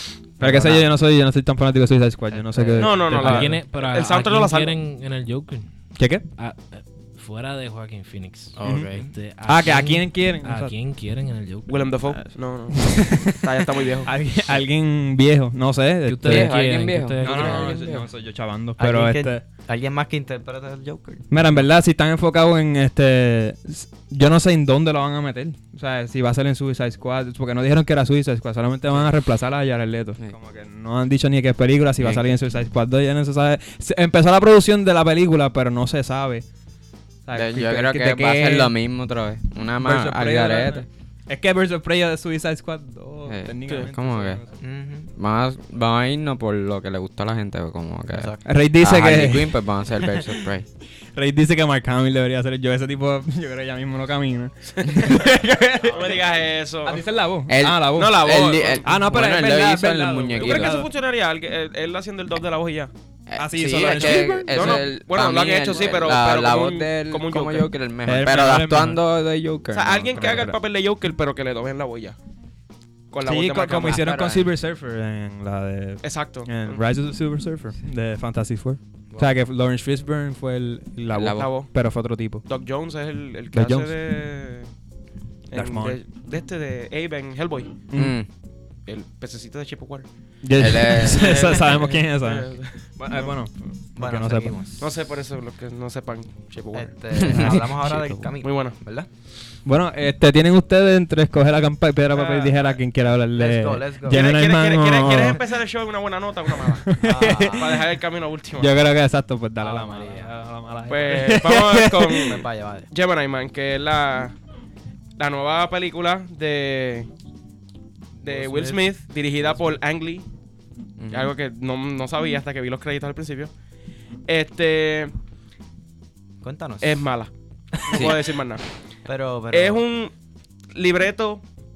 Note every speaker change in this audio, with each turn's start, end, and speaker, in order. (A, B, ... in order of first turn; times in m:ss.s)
0:00.4-0:00.9 A
0:00.4-0:03.6 B
0:02.3-0:03.4 A
0:02.8-0:04.7 C
0:03.1-0:12.0 D
0:06.0-0:06.2 B
0:08.6-0:09.1 A
0:08.6-0:08.9 B
0:09.4-0:10.8 B
0:11.7-0:14.1 C
0:12.7-0:13.3 B
0:14.0-0:16.5 B
0:16.0-0:17.9 D
0:16.2-0:18.1 E
0:17.2-0:19.4 B
0:18.8-0:21.3 A
0:21.3-0:36.4 B
0:32.0-0:32.2 E
0:37.2-0:38.7 B
0:37.3-0:40.8 E
0:39.8-0:44.4 B
0:43.3-0:44.4 E
0:44.6-0:45.1 A
0:45.1-0:50.6 E
0:48.1-0:48.4 A
0:48.4-0:49.6 B
0:51.1-0:56.2 B
0:55.9-0:57.0 C
0:56.8-0:58.3 B
0:57.5-1:00.7 E
0:57.9-0:58.9 C
0:58.8-1:00.9 B
1:00.3-1:02.9 C
1:03.3-1:10.5 E
1:03.4-1:04.9 B
1:03.8-1:07.7 C
1:08.0-1:09.0 B
1:09.7-1:12.2 C
1:10.2-1:10.6 B
1:13.1-1:14.3 C
1:13.2-1:22.4 B
1:13.9-1:14.4 E
1:16.0-1:16.8 C
1:21.1-1:21.5 E
1:21.4-1:21.7 C
1:22.4-1:24.7 C
1:23.5-1:24.0 B
1:25.5-1:27.8 C
1:25.5-1:26.0 B
1:27.9-1:28.2 B
1:27.9-1:28.3 E
1:28.9-1:30.1 C
1:30.4-1:34.5 B
1:30.6-1:31.5 E
1:31.1-1:33.3 C
1:31.3-1:31.8 A
1:33.9-1:34.9 A
1:34.8-1:36.9 C
1:36.7-1:39.1 A
1:37.2-1:38.3 E
1:37.3-1:37.7 B
1:38.4-1:38.7 C
1:39.6-1:45.4 B
1:42.1-1:42.7 C
1:43.4-1:44.2 A
1:44.1-1:48.7 C
1:46.5-1:47.8 B
1:47.0-1:47.8 A
1:48.6-1:52.3 B
1:49.6-1:50.3 A
1:50.9-1:54.4 C
1:52.1-1:52.9 A
1:55.2-1:57.1 C
1:58.2-1:59.8 A
1:58.2-2:00.3 C
2:01.0-2:01.3 E
2:01.1-2:03.5 C
2:04.3-2:05.1 C
2:06.4-2:07.1 A
2:06.8-2:08.6 C
2:07.9-2:08.2 E
2:09.0-2:09.8 A
2:09.5-2:10.1 C
2:10.7-2:11.4 C